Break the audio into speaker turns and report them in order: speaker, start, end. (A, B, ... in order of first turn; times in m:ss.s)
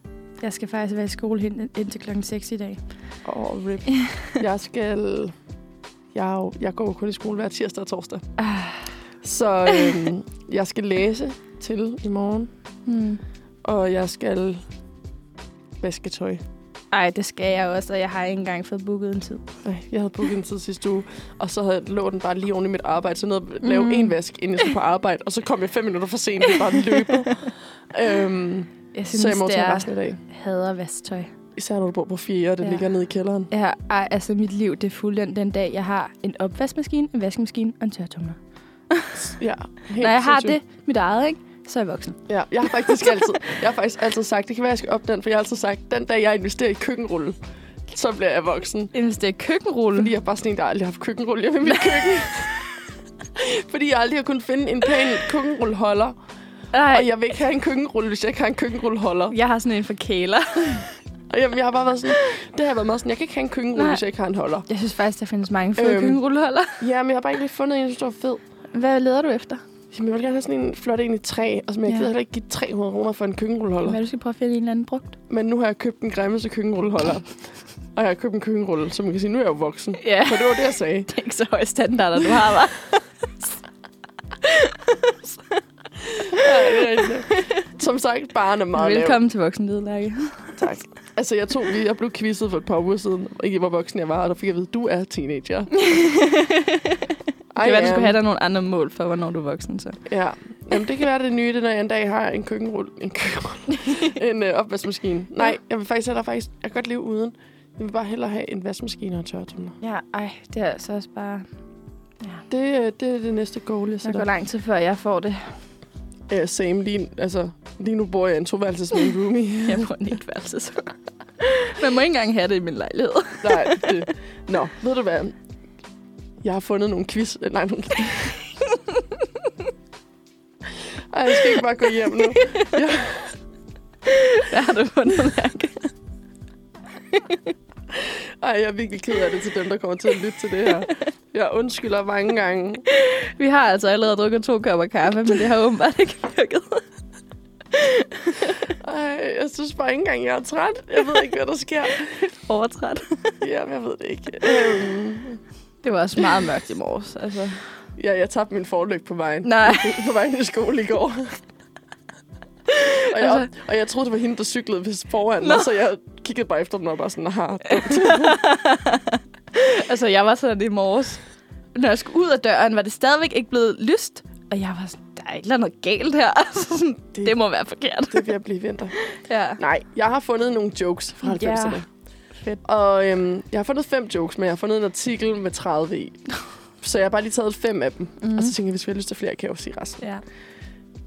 0:00.4-0:02.8 A
0:03.2-0:05.3 B
0:03.9-0:04.3 A
0:06.1-0:08.2 B
0:08.4-0:08.9 A
0:09.2-0:12.5 B
0:09.7-0:10.1 A
0:12.8-0:13.2 A
0:13.6-0:14.6 B
0:15.8-0:16.4 B
0:16.9-0:19.5 A
0:19.6-0:30.2 B
0:23.6-0:24.7 A
0:26.5-0:27.5 A
0:28.9-0:31.3 A
0:31.5-0:33.5 B
0:33.5-0:38.4 A
0:38.9-0:39.2 A
0:39.1-0:40.6 B
0:40.0-0:43.2 A
0:42.3-0:47.4 B
0:47.9-0:48.9 B
0:48.9-0:50.1 A
0:50.0-0:52.6 B
0:51.6-0:52.6 A
0:53.3-0:56.1 B
0:56.7-0:57.1 A
0:56.9-0:59.3 B
0:59.3-1:00.9 A
1:01.3-1:04.6 B
1:03.8-1:04.0 A
1:04.7-1:06.8 A
1:05.8-1:06.2 B
1:06.8-1:08.4 B
1:08.7-1:09.6 A
1:09.9-1:14.0 B
1:11.8-1:12.1 A
1:13.8-1:15.1 A
1:15.3-1:21.1 B
1:20.0-1:23.6 A
1:24.4-1:27.6 A
1:26.3-1:29.2 B
1:28.7-1:30.6 A
1:30.6-1:35.7 B
1:35.8-1:40.0 A
1:37.5-1:38.2 B
1:40.0-1:49.8 B
1:49.8-1:51.5 A
1:52.5-1:54.2 B
1:54.0-1:55.6 A
1:56.3-1:59.9 B
1:59.6-2:04.0 A
2:03.4-2:05.3 B
2:06.4-2:08.5 B
2:08.6-2:09.5 A
2:11.1-2:13.4 B
2:11.5-2:12.8 A
2:14.0-2:15.9 A
2:17.1-2:17.4 A
2:17.9-2:22.8 B
2:22.9-2:26.8 A
2:27.7-2:28.7 A
2:28.7-2:32.2 B
2:31.9-2:33.4 A
2:33.4-2:35.4 B
2:34.4-2:34.8 A
2:35.8-2:37.6 A
2:38.0-2:41.4 B
2:39.4-2:40.0 A
2:42.7-2:43.5 A
2:42.9-2:48.4 B
2:45.4-2:45.7 A
2:47.7-2:51.2 A
2:51.7-2:58.3 A
2:58.1-2:59.0 B
2:59.0-2:59.6 A
2:59.6-3:01.8 B
3:01.2-3:01.8 A
3:02.4-3:06.2 B
3:06.8-3:10.0 B
3:08.2-3:08.5 A